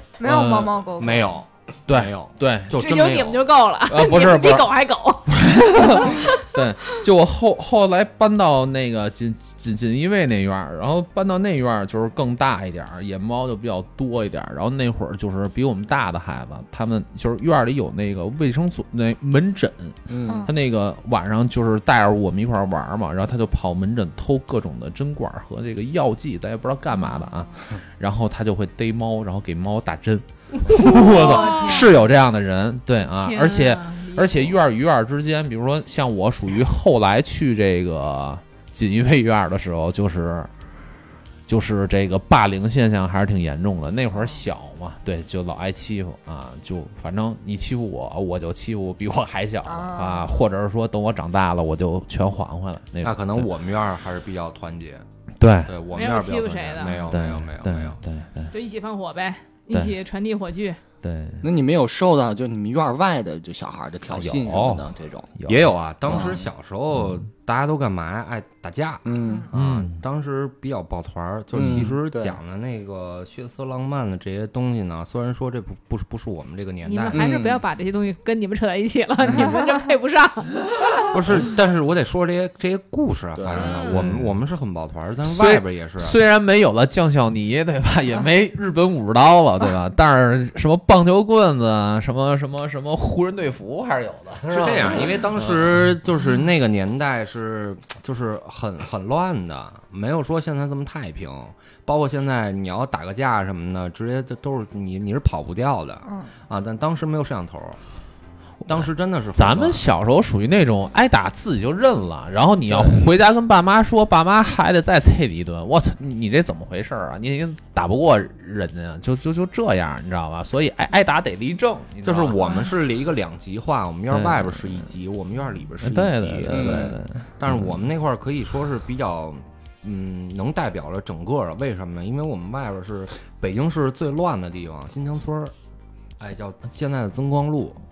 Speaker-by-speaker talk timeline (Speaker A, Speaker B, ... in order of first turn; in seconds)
Speaker A: 0.2-1.3, 20.2-20.5, 31.2-31.8, 49.6-50.3, 106.0-106.3
Speaker B: 0.2-0.8, 1.9-2.7, 3.9-4.8, 5.3-40.5, 41.5-53.5, 55.4-55.7, 57.1-58.5, 61.0-61.5, 64.1-66.2, 69.5-70.0, 83.9-84.3, 85.2-95.6, 108.6-122.4, 124.1-124.8, 125.8-127.7
Speaker C: 1.0-3.6, 53.0-55.0, 55.7-58.0, 65.5-77.3, 81.1-86.2, 94.5-107.8, 108.7-109.8, 122.0-135.5, 136.2-137.8
Speaker D: 2.7-6.4, 30.7-31.9, 33.1-34.6, 55.9-57.1, 58.5-60.8, 76.8-81.2, 83.6-84.0
Speaker E: 20.1-20.5, 61.4-65.3, 66.1-66.4, 69.0-69.5, 71.5-72.4, 77.1-77.6, 83.3-83.8, 126.5-127.0